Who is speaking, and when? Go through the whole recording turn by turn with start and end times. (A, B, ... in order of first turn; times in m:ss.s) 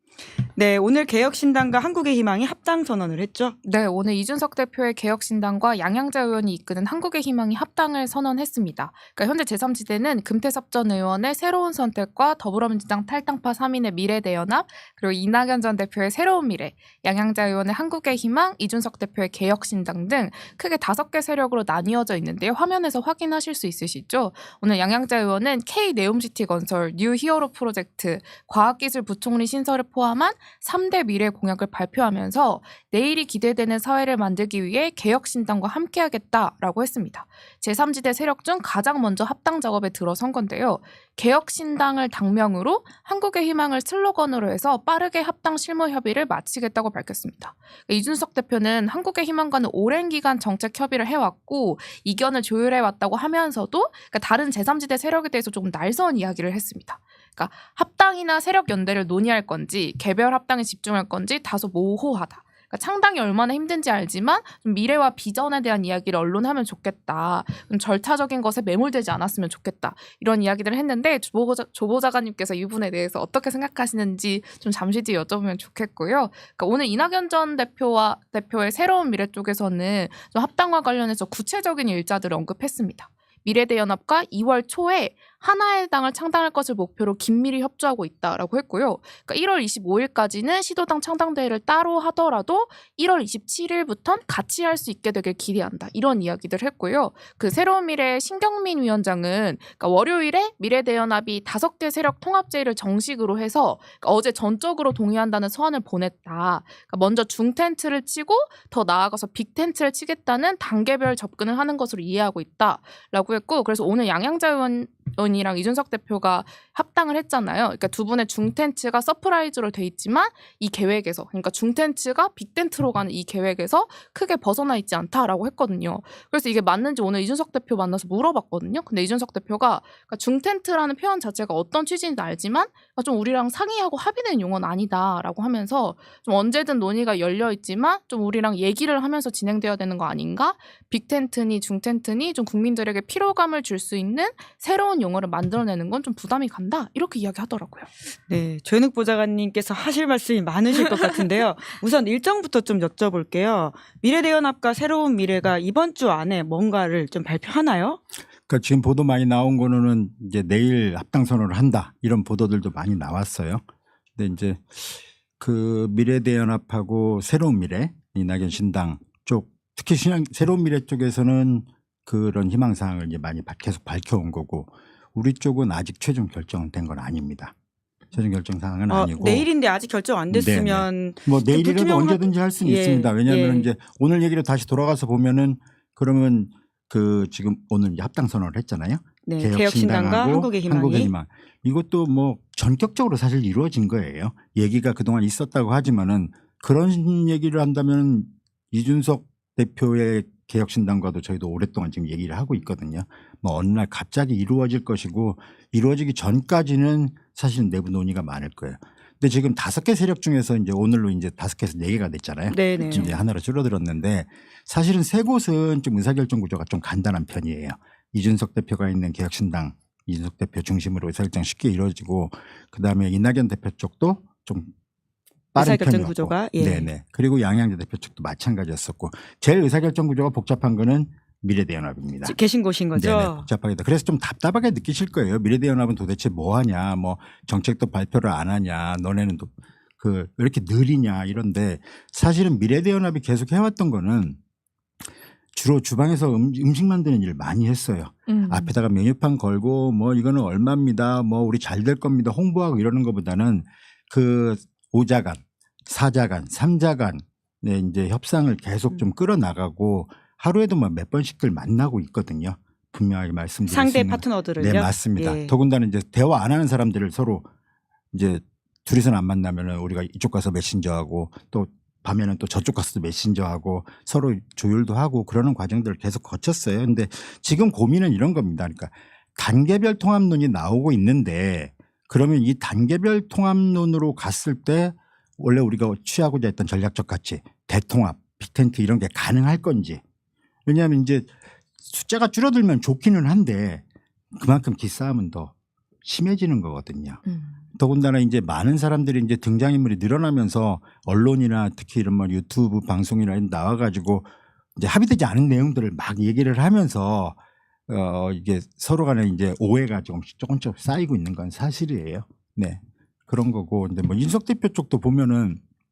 0:00.6-0:03.6 A
0:03.6-2:27.9 B
2:28.3-2:38.0 A
2:38.5-2:43.6 C
2:44.2-2:57.5 C
2:58.1-2:59.5 C
2:58.9-3:03.7 A
3:00.3-3:44.7 C
3:09.2-3:11.1 A
3:32.5-3:33.2 A
3:32.8-3:33.1 B
3:45.5-3:52.4 C
3:45.6-3:46.9 A
3:52.2-3:53.5 A
3:52.9-4:04.4 C
4:05.5-4:27.5 C
4:08.3-4:08.8 B
4:23.7-4:25.5 A
4:28.1-4:50.0 C
4:50.6-4:51.3 C
4:51.8-4:57.2 C
4:57.2-4:57.6 B
4:57.8-5:15.6 C